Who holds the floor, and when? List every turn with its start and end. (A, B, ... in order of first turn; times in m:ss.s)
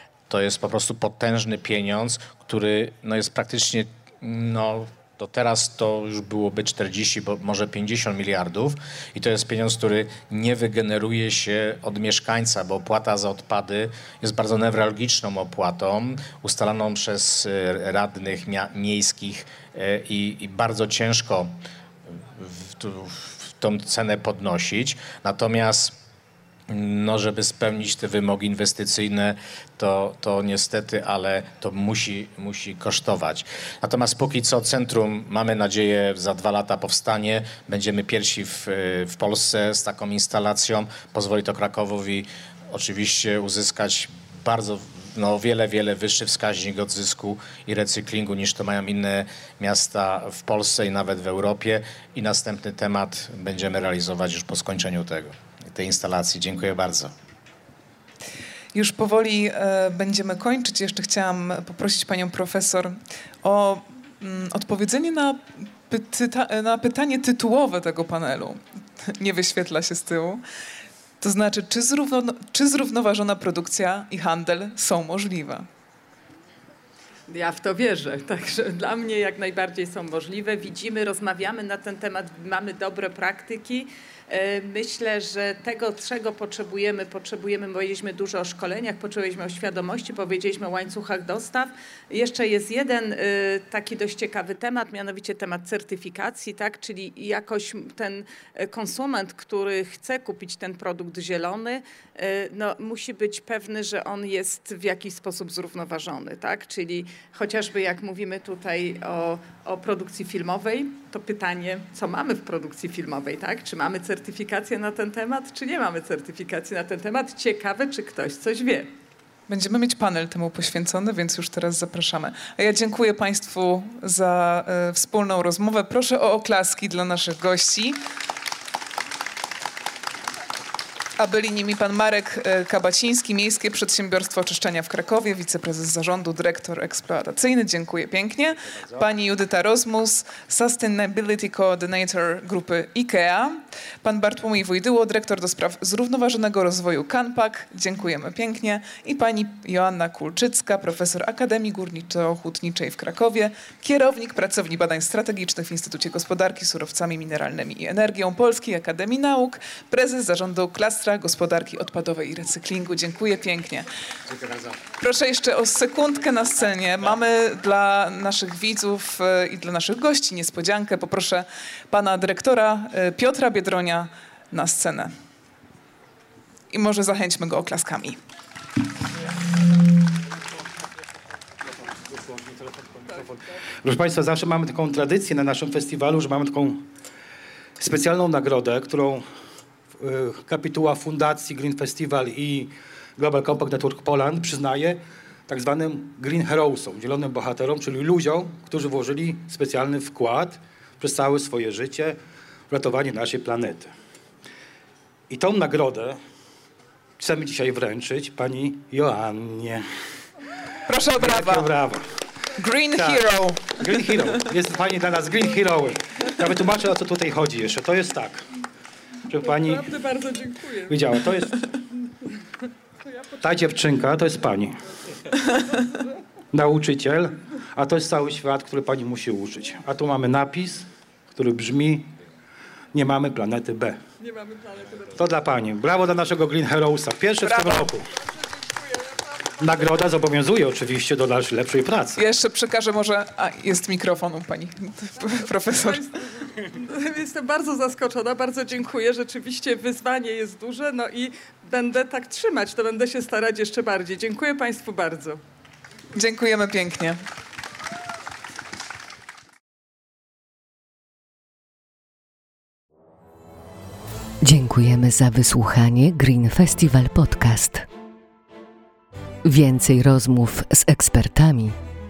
0:00.3-0:21.5 A
0:22.3-0:26.0 A
0:26.7-0:57.1 A
0:58.7-1:10.4 B
1:11.2-1:15.7 B
1:17.3-1:58.9 C
1:59.5-2:08.0 B
2:11.2-2:43.9 B
2:44.3-2:44.7 A
2:45.0-2:55.1 B
2:56.7-2:58.2 B
3:02.0-3:06.9 D
3:07.8-3:09.2 D
3:10.0-3:23.9 D
3:25.3-3:26.2 D
3:27.2-3:29.8 D
3:30.8-3:31.7 B
3:31.2-3:32.2 D
3:32.6-3:34.4 B
3:32.9-3:38.4 D
3:39.3-3:40.0 D
3:39.5-3:41.0 C
3:40.9-3:41.6 D
3:43.4-3:44.9 D
3:46.5-3:52.2 D
3:52.9-3:54.0 D
3:54.2-3:55.0 C
3:55.0-3:58.1 D
3:57.4-3:57.9 B
3:59.6-4:02.2 D
4:02.2-4:06.0 B
4:05.7-4:15.4 C
4:16.1-4:17.2 B
4:24.4-4:27.8 E
4:29.4-4:31.8 E